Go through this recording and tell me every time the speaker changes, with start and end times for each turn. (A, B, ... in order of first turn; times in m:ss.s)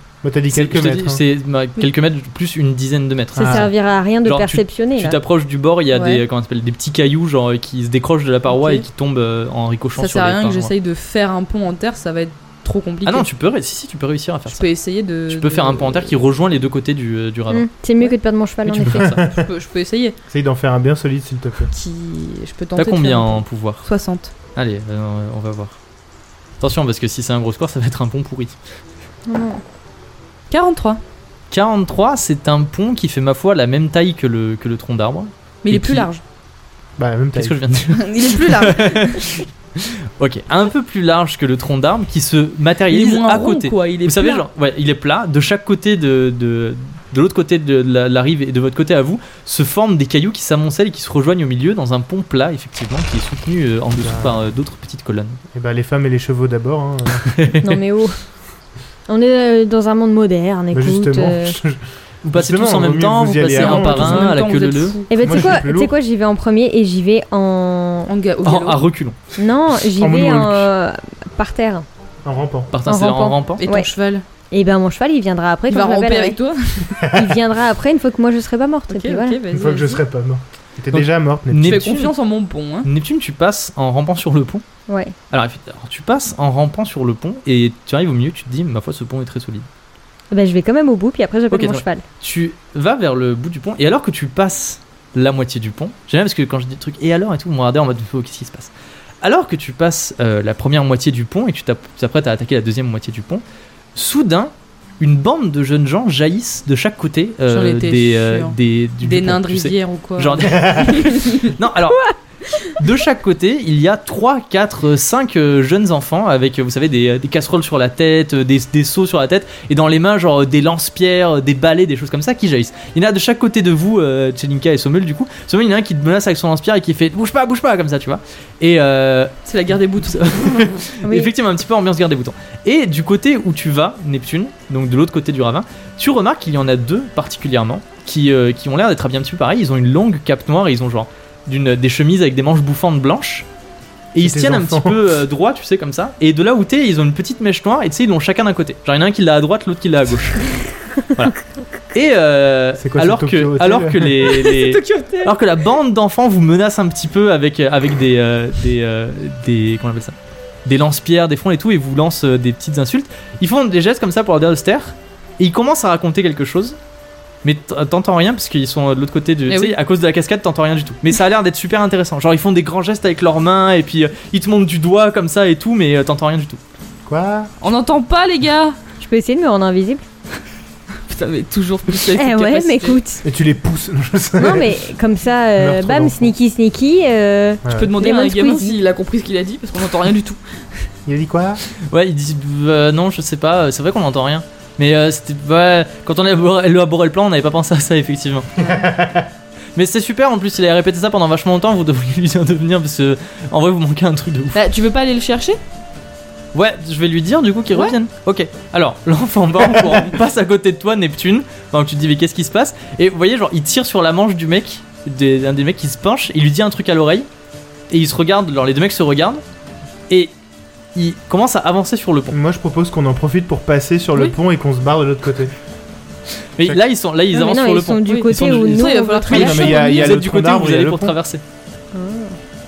0:00.2-0:01.2 A
0:00.5-0:03.7 B
0:03.3-0:03.7 A
0:03.3-0:05.2 C
0:04.2-0:10.7 B
0:05.9-0:06.2 D
0:08.5-0:08.8 D
0:10.0-0:13.3 D
0:13.0-0:14.6 B
0:14.5-0:16.2 D
0:15.3-0:17.6 B
0:17.5-0:19.1 C
0:18.6-0:19.2 B
0:18.8-0:19.5 A
0:19.3-0:20.2 D
0:20.3-0:21.7 A
0:21.7-0:24.3 D
0:22.8-0:23.8 B
0:24.5-0:25.8 B
0:26.6-0:28.6 B
0:29.2-0:29.6 C
0:30.5-0:31.0 D
0:31.5-0:36.1 B
0:35.6-0:36.2 D
0:37.0-0:37.6 A
0:37.3-0:55.4 B
0:37.9-0:39.3 D
0:42.9-0:44.4 D
0:54.0-0:54.4 A
0:55.5-0:57.3 A
0:57.2-0:57.8 B
0:57.6-0:58.2 C
0:59.1-1:01.6 C
1:00.7-1:04.4 A
1:02.2-1:05.0 B
1:03.5-1:05.5 D
1:05.1-1:08.1 C
1:05.2-1:05.9 A
1:08.1-1:08.8 D
1:08.4-1:09.2 B
1:09.4-1:11.8 C
1:09.9-1:10.7 A
1:12.2-1:12.7 A
1:12.7-1:13.6 B
1:12.8-1:13.9 C
1:13.6-1:14.2 D
1:14.5-1:16.4 C
1:15.7-1:17.1 D
1:17.0-1:17.4 A
1:17.1-1:19.4 C
1:18.9-1:20.0 D
1:19.5-1:21.9 A
1:20.9-1:22.1 B
1:21.6-1:22.9 D
1:22.8-1:24.6 B
1:24.9-1:25.1 C
1:25.3-1:29.7 B
1:30.3-1:32.0 C
1:31.5-1:43.4 B
1:43.9-1:52.1 B
1:47.5-1:51.5 D
1:52.0-1:52.8 C
1:52.7-2:09.3 B
2:09.4-2:10.8 D
2:10.1-2:23.4 B
2:11.0-2:11.3 C
2:24.1-2:30.4 B
2:24.2-2:25.1 A
2:31.9-2:46.8 B
2:32.8-2:34.2 A
2:34.2-2:35.4 D
2:47.4-2:56.6 B
2:49.5-2:49.8 D
2:57.0-2:57.5 A
2:57.6-2:58.8 D
2:59.0-3:00.0 C
3:01.1-3:03.0 D
3:02.1-3:03.2 C
3:03.2-3:04.8 A
3:04.4-3:08.8 C
3:05.6-3:06.3 A
3:07.6-3:07.9 A
3:07.7-3:10.9 D
3:11.0-3:11.6 A
3:11.9-3:18.6 B
3:18.6-3:19.2 A
3:19.7-3:24.6 B
3:24.5-3:25.6 D
3:26.5-3:37.3 B
3:37.9-3:39.4 B
3:40.9-3:42.4 B
3:42.3-3:45.5 A
3:46.6-3:51.4 B
3:47.3-3:50.1 C
3:48.0-3:50.1 D
3:49.3-3:51.2 A
3:51.9-3:52.4 C